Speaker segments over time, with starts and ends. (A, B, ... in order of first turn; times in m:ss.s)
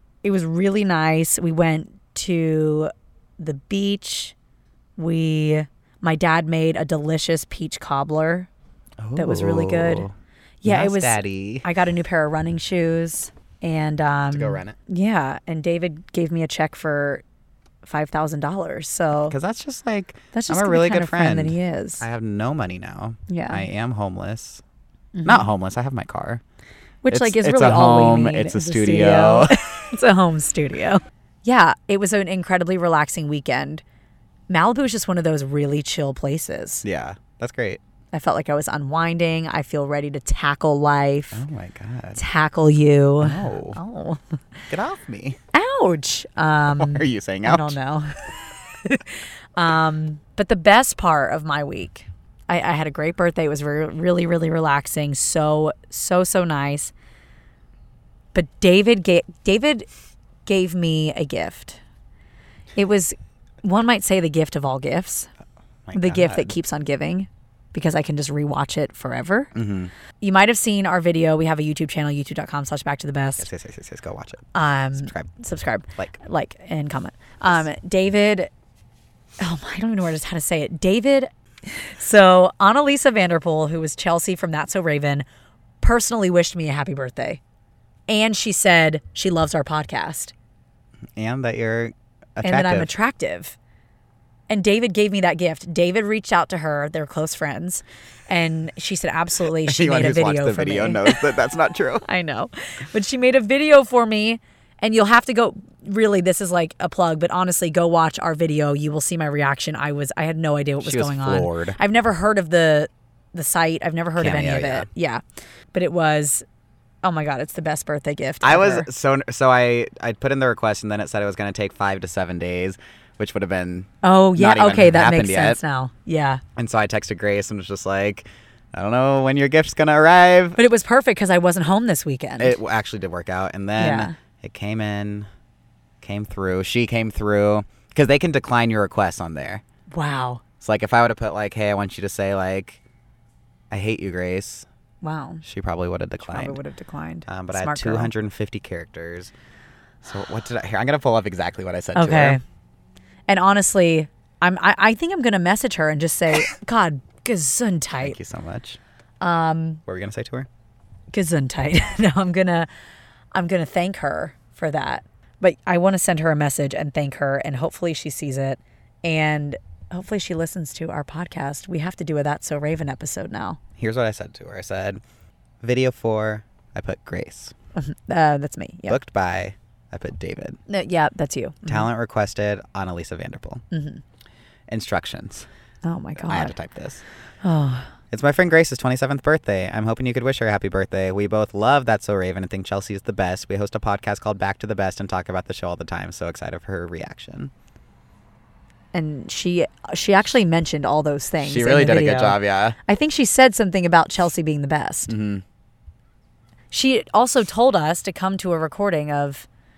0:00.2-0:04.3 A
0:05.0-0:08.5 A
0:09.0-0:11.7 B
0:09.2-0:10.1 A
0:10.6-0:17.2 A
0:14.3-0:14.8 B
0:17.8-0:19.4 A
0:19.3-0:24.6 B
0:20.3-0:22.1 A
0:23.3-0:23.6 A
0:25.2-0:25.5 A
0:25.2-0:26.4 B
0:27.0-0:33.8 A
0:27.1-0:29.6 B
0:34.5-0:36.8 A
0:36.8-0:37.8 B
0:38.1-0:41.4 A
0:41.3-0:42.2 B
0:42.2-0:44.6 A
0:43.2-0:43.8 B
0:44.7-0:45.4 B
0:45.5-0:56.9 A
0:46.7-0:47.8 B
0:58.3-0:59.9 A
1:00.4-1:01.8 A
1:02.8-1:05.3 A
1:05.9-1:06.5 B
1:05.9-1:09.5 A
1:09.5-1:09.9 B
1:10.2-1:13.5 A
1:13.4-1:15.3 B
1:14.5-1:18.5 A
1:19.4-1:25.2 A
1:25.8-1:27.4 A
1:28.1-1:30.3 A
1:31.2-1:32.9 B
1:32.4-1:33.6 A
1:34.5-1:41.2 A
1:39.6-1:42.0 B
1:42.0-1:55.2 A
1:50.8-1:51.8 B
1:54.2-1:54.9 B
1:55.7-1:56.4 A
1:57.0-1:58.9 A
1:58.4-2:05.6 B
2:04.0-2:06.4 A
2:06.6-2:10.6 B
2:10.6-2:12.6 A
2:12.4-2:15.3 B
2:13.8-2:14.2 A
2:16.0-2:19.6 B
2:19.9-2:20.4 A
2:20.6-2:22.8 B
2:23.7-2:24.6 B
2:25.0-2:25.4 A
2:25.4-2:26.6 B
2:26.2-2:28.1 A
2:27.2-2:29.3 B
2:30.0-2:32.4 B
2:31.9-2:32.4 A
2:33.3-2:38.2 A
2:38.0-2:38.8 B
2:39.2-2:39.8 A
2:39.9-2:40.5 B
2:41.1-2:42.7 A
2:43.3-2:53.6 A
2:53.8-2:55.0 B
2:55.6-2:57.5 B
2:57.8-2:59.0 A
2:58.9-3:00.6 B
3:00.7-3:01.9 A
3:01.6-3:03.6 B
3:03.7-3:04.0 A
3:04.7-3:05.5 B
3:05.8-3:06.6 A
3:06.2-3:07.0 B
3:07.4-3:07.9 A
3:08.1-3:17.5 B
3:18.9-3:25.1 A
3:21.4-3:22.8 B
3:25.1-3:25.4 B
3:26.7-3:29.5 A